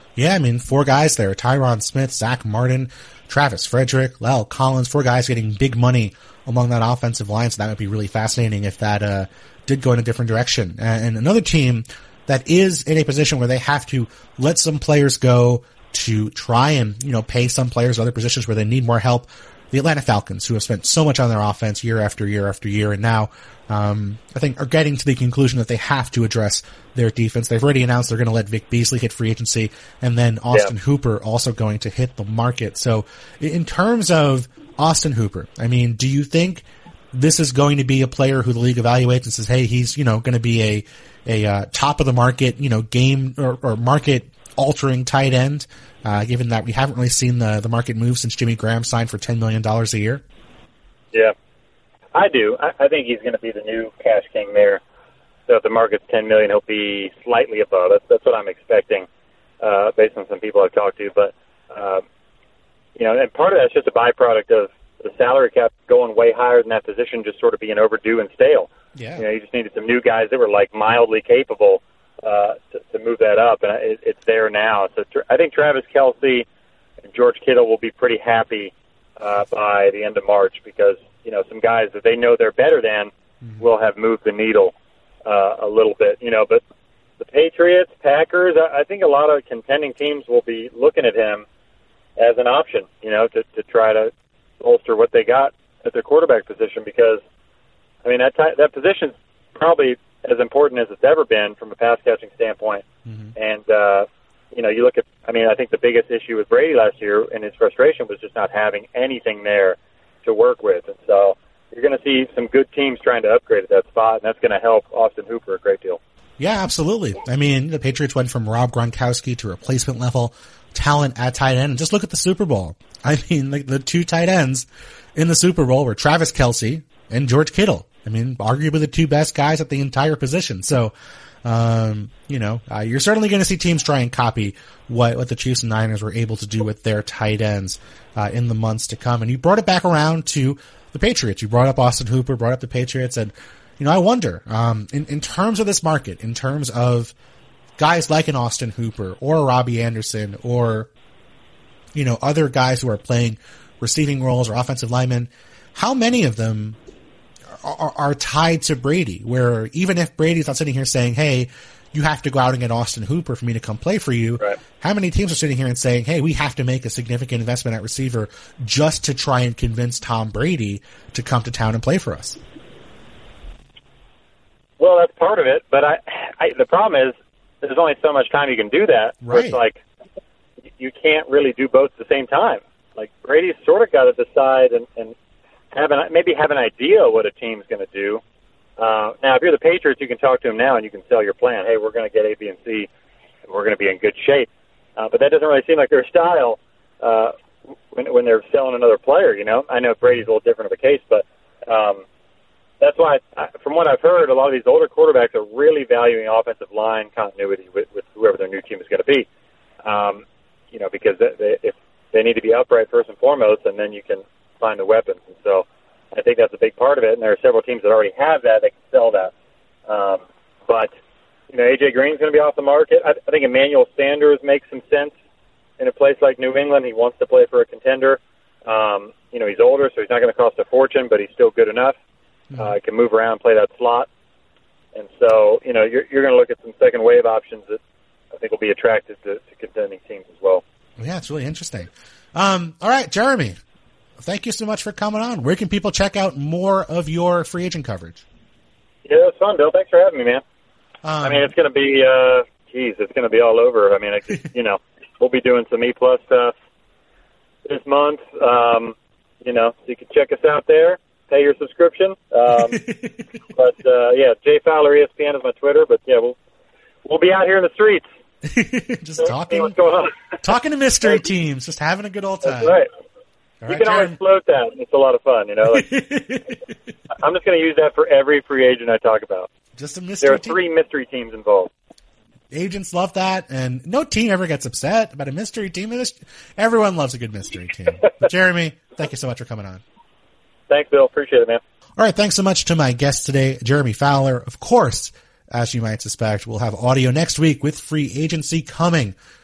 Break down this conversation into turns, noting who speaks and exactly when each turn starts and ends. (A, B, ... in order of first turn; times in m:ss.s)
0:00.2-0:50.2 A
0:52.1-0:54.8 B
0:55.5-0:59.1 B
0:59.6-1:02.0 B
1:03.0-1:16.4 B
1:09.0-1:09.2 A
1:17.1-1:24.7 B
1:25.2-1:26.6 B
1:27.2-1:31.4 B
1:32.2-1:37.2 B
1:38.0-1:42.8 B
1:43.0-1:43.3 A
1:43.4-1:56.0 B
1:56.4-2:10.9 A
2:11.4-2:27.1 A
2:27.8-2:30.9 A
2:31.9-2:36.8 A
2:37.5-2:52.4 A
2:54.8-2:59.8 B
2:59.2-2:59.6 A
3:00.8-3:05.1 B
3:05.7-3:08.2 B
3:08.8-3:12.9 B
3:13.5-3:17.3 B
3:17.9-3:22.0 B
3:22.8-3:29.3 B
3:29.8-3:39.3 B
3:39.9-3:40.9 B
3:41.5-3:45.1 B
3:45.8-3:52.0 B
3:52.6-3:54.1 B
3:54.9-3:57.8 B
3:58.3-4:00.6 B
4:01.0-4:03.6 A
4:04.2-4:08.2 A
4:09.0-4:10.4 B
4:11.0-4:11.5 A
4:11.2-4:16.5 B
4:17.6-4:22.8 B
4:22.7-4:23.2 A
4:23.5-4:26.4 B
4:27.0-4:28.0 B
4:28.4-4:29.8 A
4:29.2-4:30.4 B
4:30.4-4:32.8 A
4:32.4-4:32.9 B
4:33.6-4:34.2 A
4:33.7-4:35.9 B
4:35.7-4:36.6 A
4:37.1-4:39.5 B
4:39.8-4:40.6 A
4:40.2-4:41.7 B
4:42.5-4:49.8 A
4:50.7-4:51.6 B
4:52.0-4:59.1 A